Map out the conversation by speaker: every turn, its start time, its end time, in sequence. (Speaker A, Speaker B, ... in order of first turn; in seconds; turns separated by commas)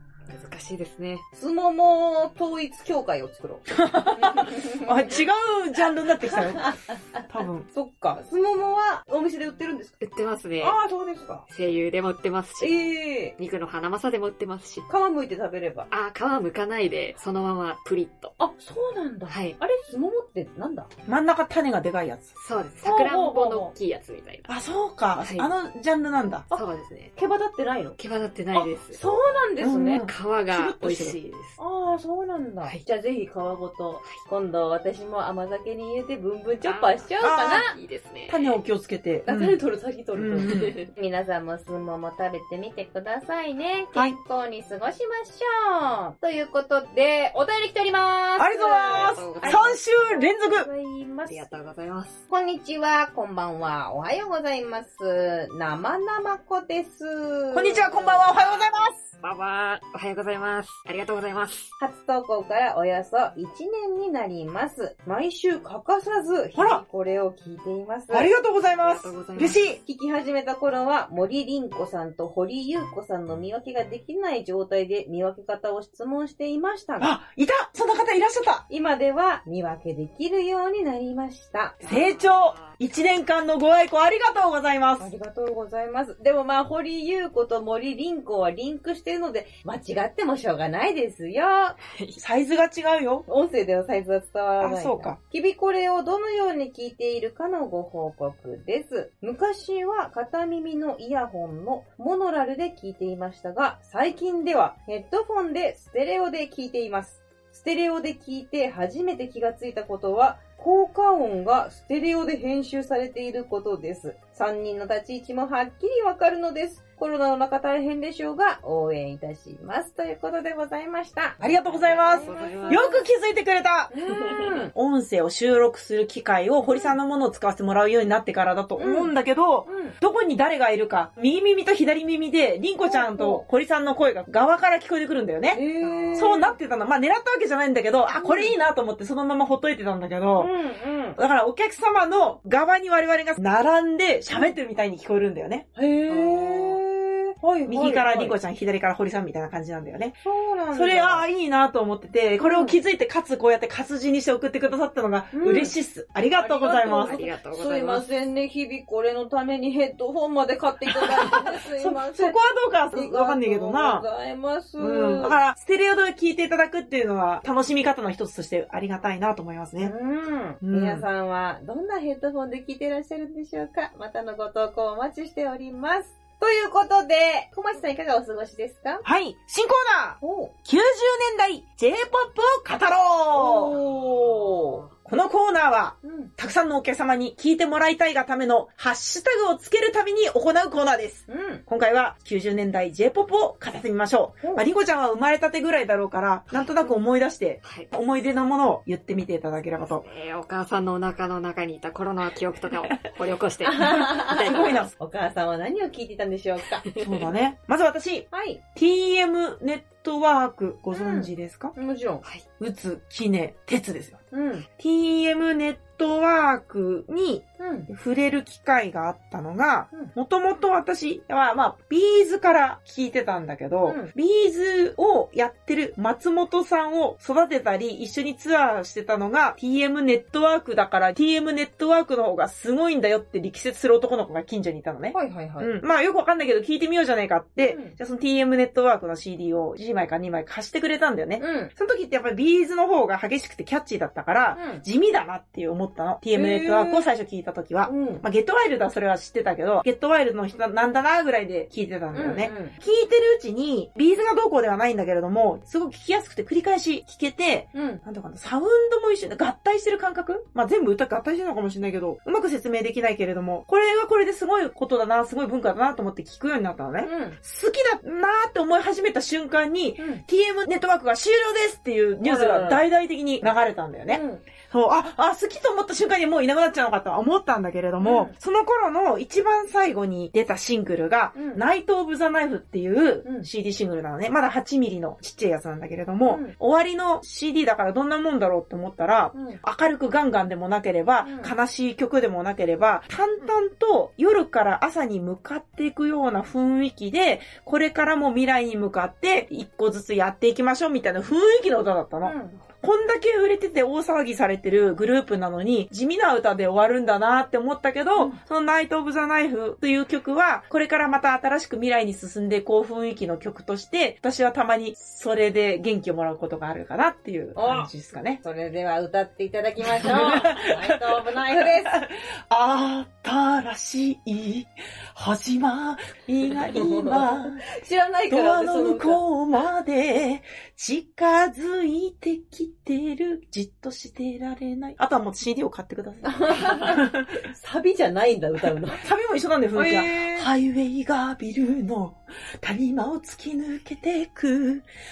Speaker A: 0.3-1.2, Speaker B: 1.4-4.9, Speaker C: 3.7-6.7, Speaker B: 6.2-10.0, Speaker C: 7.3-7.7, Speaker A: 10.0-10.8, Speaker B: 10.6-11.4, Speaker A: 11.5-12.8, Speaker B: 12.6-13.3, Speaker A: 13.4-14.9, Speaker B: 14.9-15.9, Speaker A: 15.9-18.4, Speaker B: 18.4-20.9, Speaker A: 19.3-19.6, Speaker C: 21.1-22.3, Speaker A: 22.4-24.5, Speaker B: 22.8-23.7, Speaker C: 24.5-26.5, Speaker A: 25.2-25.5, Speaker A: 26.5-27.1, Speaker B: 27.2-28.0, Speaker A: 28.0-29.0, Speaker B: 28.5-30.0, Speaker C: 29.6-31.2, Speaker A: 29.9-31.6, Speaker B: 31.6-37.8, Speaker A: 36.6-38.6, Speaker C: 37.2-37.6, Speaker C: 38.3-39.6, Speaker B: 39.3-51.5, Speaker C: 40.2-40.6, Speaker A: 40.5-40.9, Speaker C: 48.4-50.7, Speaker A: 48.8-49.8, Speaker A: 51.3-52.2, Speaker B: 52.3-58.2, Speaker C: 57.5-59.0, Speaker A: 58.2-58.7, Speaker A: 59.2-61.7, Speaker B: 61.8-68.3, Speaker C: 66.5-66.8, Speaker C: 68.1-69.8, Speaker A: 68.7-69.6, Speaker B: 69.8-77.1, Speaker C: 77.0-78.7, Speaker B: 78.7-82.0, Speaker A: 81.8-82.8, Speaker C: 81.8-85.1, Speaker B: 85.0-91.8, Speaker A: 91.8-92.2, Speaker C: 92.2-93.3, Speaker B: 93.3-121.4, Speaker C: 94.6-95.2, Speaker C: 121.4-135.6, Speaker A: 121.4-122.9, Speaker B: 122.0-123.0, Speaker B: 123.9-124.7, Speaker B: 126.7-126.9, Speaker B: 128.8-129.1, Speaker B: 129.7-130.0, Speaker B: 132.8-133.4, Speaker B: 135.5-136.6, Speaker A: 135.8-136.3, Speaker C: 136.2-140.5, Speaker B: 138.2-138.6, Speaker B: 140.4-141.2, Speaker C: 141.2-145.7, Speaker B: 145.8-148.4, Speaker A: 146.1-146.8, Speaker C: 147.7-150.2, Speaker B: 150.2-151.3, Speaker C: 150.7-157.2, Speaker B: 152.4-152.8, Speaker B: 155.3-155.7, Speaker B: 156.3-162.4, Speaker A: 156.9-158.1, Speaker C: 160.9-164.1, Speaker B: 162.9-165.4, Speaker C: 164.8-169.9, Speaker B: 169.8-179.1, Speaker C: 170.6-171.1, Speaker C: 179.0-183.8, Speaker B: 180.2-180.5, Speaker B: 183.3-184.8, Speaker A: 184.0-184.9, Speaker C: 185.1-200.1, Speaker B: 186.0-186.3, Speaker B: 191.3-191.6, Speaker A: 196.5-196.9, Speaker A: 197.6-197.9, Speaker A: 199.8-204.9, Speaker B: 203.6-206.9, Speaker C: 203.8-204.9, Speaker A: 206.8-207.3, Speaker C: 207.0-211.7, Speaker B: 208.3-208.6, Speaker B: 210.9-212.2, Speaker C: 212.6-214.2, Speaker B: 214.3-214.7, Speaker C: 214.8-318.4, Speaker B: 217.6-217.9, Speaker B: 223.8-224.1, Speaker B: 235.1-235.7, Speaker B: 237.6-238.0, Speaker B: 241.4-241.7, Speaker B: 244.5-244.8, Speaker B: 246.3-247.1, Speaker B: 247.8-248.2, Speaker B: 252.1-252.8, Speaker B: 257.7-258.0, Speaker B: 267.0-267.4, Speaker B: 272.2-272.8, Speaker B: 274.1-274.4, Speaker B: 278.0-278.3, Speaker B: 281.4-281.6, Speaker B: 286.3-286.6, Speaker B: 289.3-289.6, Speaker B: 291.2-291.5, Speaker B: 302.2-302.6, Speaker B: 317.6-317.9, Speaker B: 318.4-322.0, Speaker C: 319.9-327.6, Speaker B: 326.7-329.2, Speaker C: 328.3-337.4, Speaker B: 336.2-339.1, Speaker C: 339.0-344.9, Speaker B: 339.8-340.5